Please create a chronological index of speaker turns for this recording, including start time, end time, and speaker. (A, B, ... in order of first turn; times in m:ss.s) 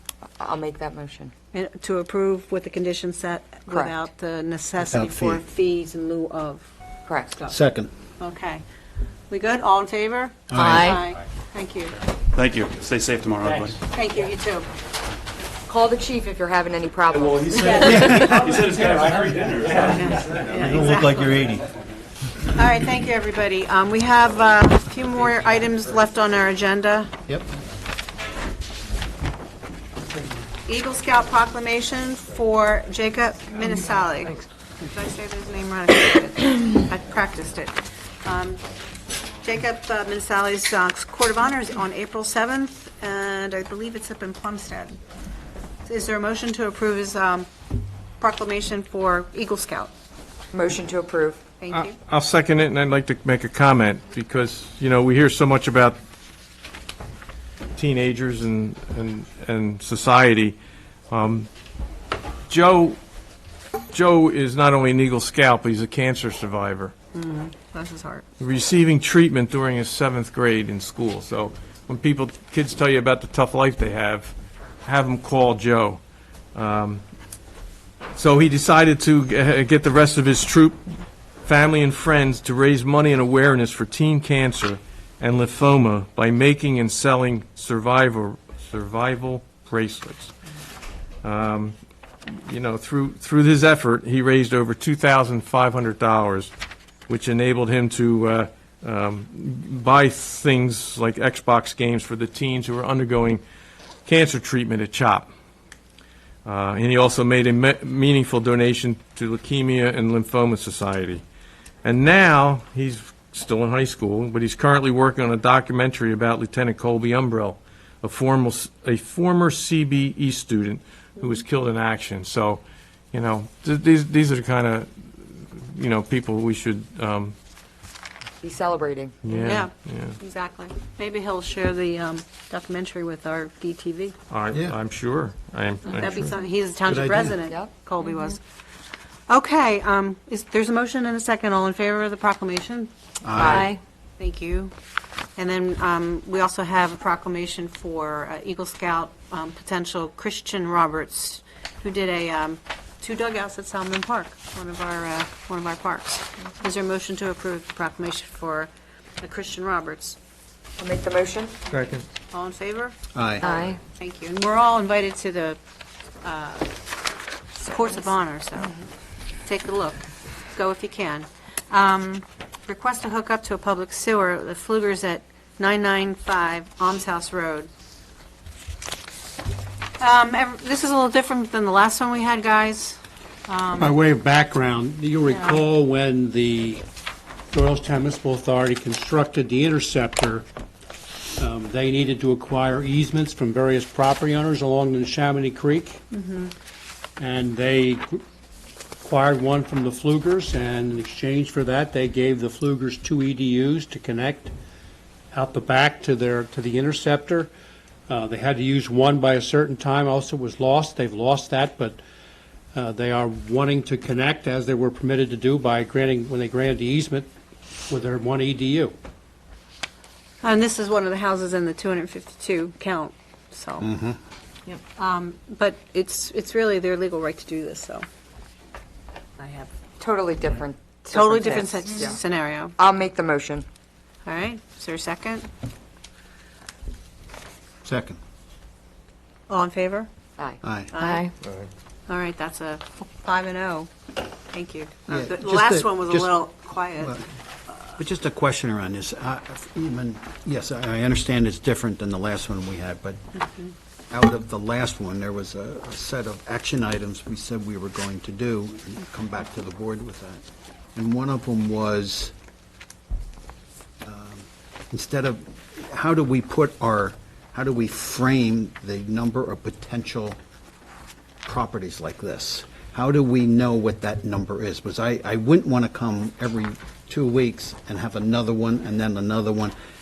0:00.4-0:01.3 A
0:01.5-0:06.7 B
0:03.7-0:03.9 A
0:04.8-0:05.4 C
0:07.1-0:07.3 A
0:07.5-0:07.9 C
0:08.2-0:08.6 B
0:09.3-0:12.0 B
0:10.5-0:11.0 C
0:12.3-0:13.8 D
0:13.9-0:14.7 B
0:15.7-0:17.9 A
0:17.5-0:18.9 B
0:17.7-0:18.6 C
0:18.3-0:19.7 D
0:19.7-0:21.4 B
0:20.6-0:21.6 C
0:22.5-0:27.1 B
0:30.7-0:38.6 B
0:39.4-0:45.0 B
0:45.8-0:47.5 B
0:48.2-0:49.9 B
0:50.5-0:51.4 A
0:51.6-0:52.0 B
0:51.7-0:56.0 E
0:57.8-1:00.6 E
1:01.1-1:01.5 E
1:02.5-1:03.0 E
1:03.9-1:06.9 E
1:07.1-1:08.2 B
1:08.4-1:14.3 E
1:14.8-1:16.0 E
1:16.6-1:17.0 E
1:18.2-1:30.3 E
1:31.2-1:31.8 E
1:32.3-1:36.5 E
1:37.1-1:43.4 E
1:44.1-1:45.3 E
1:46.4-1:51.2 E
1:51.8-2:07.3 E
2:08.4-2:09.2 A
2:09.2-2:10.2 E
2:09.3-2:14.1 B
2:14.3-2:16.3 E
2:15.9-2:18.4 B
2:16.9-2:17.4 C
2:19.3-2:22.9 B
2:23.2-2:23.8 C
2:23.4-2:23.8 A
2:24.2-2:24.7 B
2:25.4-2:40.2 B
2:40.8-2:41.6 A
2:41.8-2:45.6 B
2:43.1-2:43.5 C
2:43.4-2:43.8 A
2:46.2-2:46.7 B
2:47.6-2:48.7 B
2:49.4-2:50.0 B
2:50.6-2:57.7 B
3:00.0-3:04.0 B
3:03.8-3:06.8 F
3:07.5-3:10.5 F
3:11.4-3:16.0 F
3:16.2-3:16.5 B
3:17.2-3:18.2 F
3:19.0-3:24.5 F
3:25.3-3:27.5 F
3:28.1-3:32.0 F
3:32.7-3:37.3 F
3:37.9-3:38.9 F
3:40.4-3:43.9 B
3:43.8-3:44.2 C
3:45.0-3:48.1 B
3:49.4-3:49.7 B
3:50.0-3:52.2 A
3:51.1-3:52.8 B
3:52.8-3:53.7 A
3:54.2-3:55.5 B
3:57.8-3:58.2 C
3:59.5-4:00.1 B
4:00.4-4:01.2 A
4:00.6-4:00.9 C
4:00.9-4:01.3 B
4:02.1-4:03.9 B
4:04.5-4:07.2 B
4:05.1-4:06.3 C
4:08.0-4:13.2 C
4:14.1-4:20.4 C
4:21.0-4:22.3 C
4:24.0-4:30.4 C
4:31.4-4:39.8 C